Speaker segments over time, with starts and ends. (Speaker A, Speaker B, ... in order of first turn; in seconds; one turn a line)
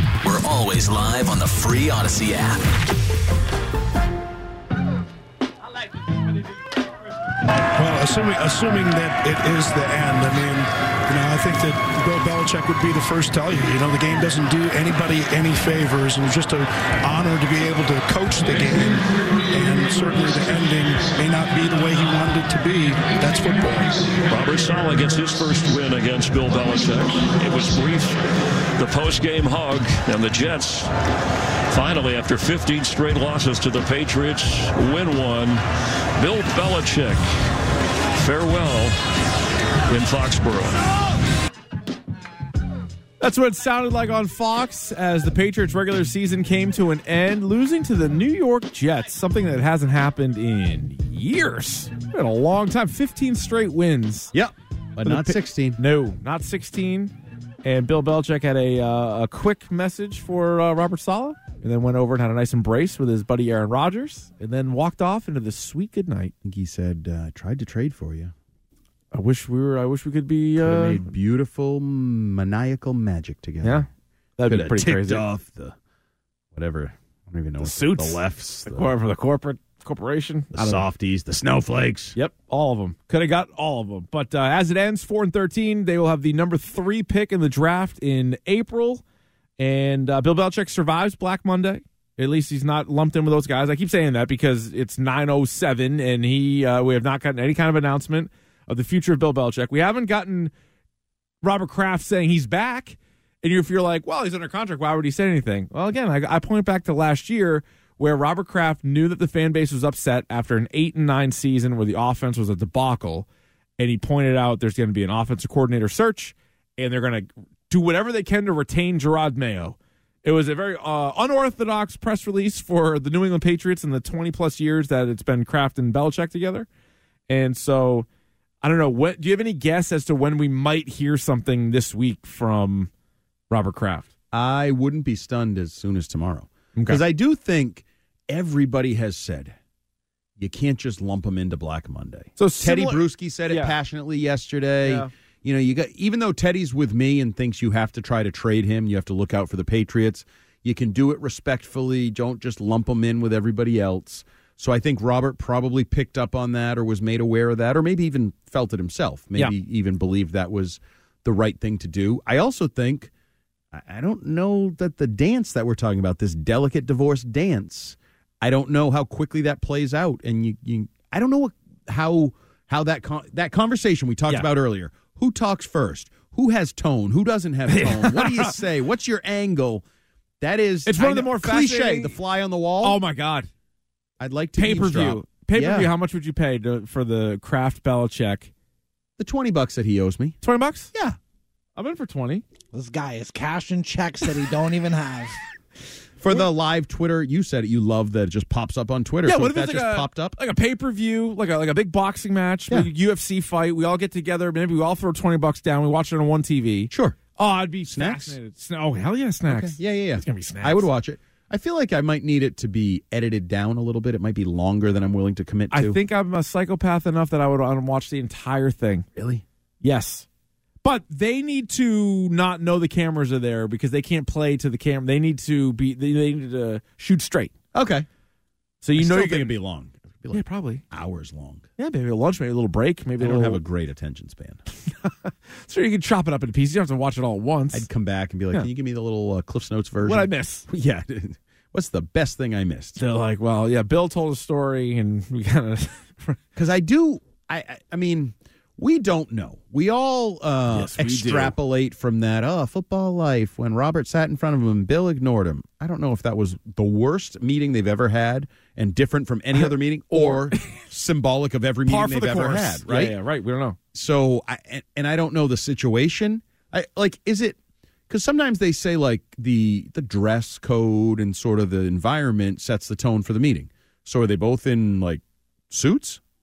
Speaker A: 0.2-2.6
Speaker B: 7.7-23.9
Speaker C: 24.3-28.2
Speaker C: 28.8-30.9
Speaker C: 31.7-35.6
Speaker C: 36.2-37.2
Speaker C: 38.1-39.0
Speaker C: 39.9-40.9
Speaker D: 43.2-54.3
Speaker E: 54.3-55.8
Speaker D: 55.0-57.1
Speaker D: 57.6-66.3
Speaker E: 66.4-68.3
Speaker D: 69.1-71.1
Speaker E: 70.6-73.9
Speaker D: 74.4-75.2
Speaker E: 74.5-75.8
Speaker E: 76.5-78.9
Speaker D: 77.6-80.8
Speaker E: 80.5-82.1
Speaker D: 82.1-89.0
Speaker D: 89.6-100.5
Speaker D: 101.4-113.3
Speaker D: 113.8-126.7
Speaker D: 127.3-128.1
Speaker D: 128.6-132.9
Speaker D: 133.5-134.1
Speaker E: 134.3-139.6
Speaker D: 136.8-137.0
Speaker E: 140.4-163.1
Speaker D: 142.4-143.7
Speaker D: 144.8-145.1
Speaker E: 163.7-179.8
Speaker D: 177.7-178.6
Speaker E: 180.4-183.0
Speaker D: 180.8-182.2
Speaker D: 182.8-183.5
Speaker E: 184.2-185.9
Speaker D: 184.6-188.5
Speaker E: 189.2-190.4
Speaker D: 190.4-190.9
Speaker D: 191.8-192.4
Speaker F: 192.7-195.4
Speaker E: 196.2-200.3
Speaker D: 199.2-210.9
Speaker E: 206.9-207.2
Speaker E: 207.9-208.4
Speaker E: 209.5-216.0
Speaker D: 215.7-219.1
Speaker E: 219.1-219.4
Speaker D: 219.8-220.2
Speaker D: 220.8-227.5
Speaker E: 227.7-228.1
Speaker D: 228.8-229.5
Speaker E: 228.9-231.7
Speaker D: 230.3-230.8
Speaker D: 231.8-233.6
Speaker E: 233.2-234.6
Speaker D: 235.0-237.9
Speaker E: 237.7-243.0
Speaker D: 240.0-240.7
Speaker D: 243.0-246.4
Speaker E: 246.6-263.2
Speaker D: 250.7-251.5
Speaker D: 259.6-260.8
Speaker D: 261.9-263.8
Speaker E: 263.9-267.6
Speaker E: 268.1-276.2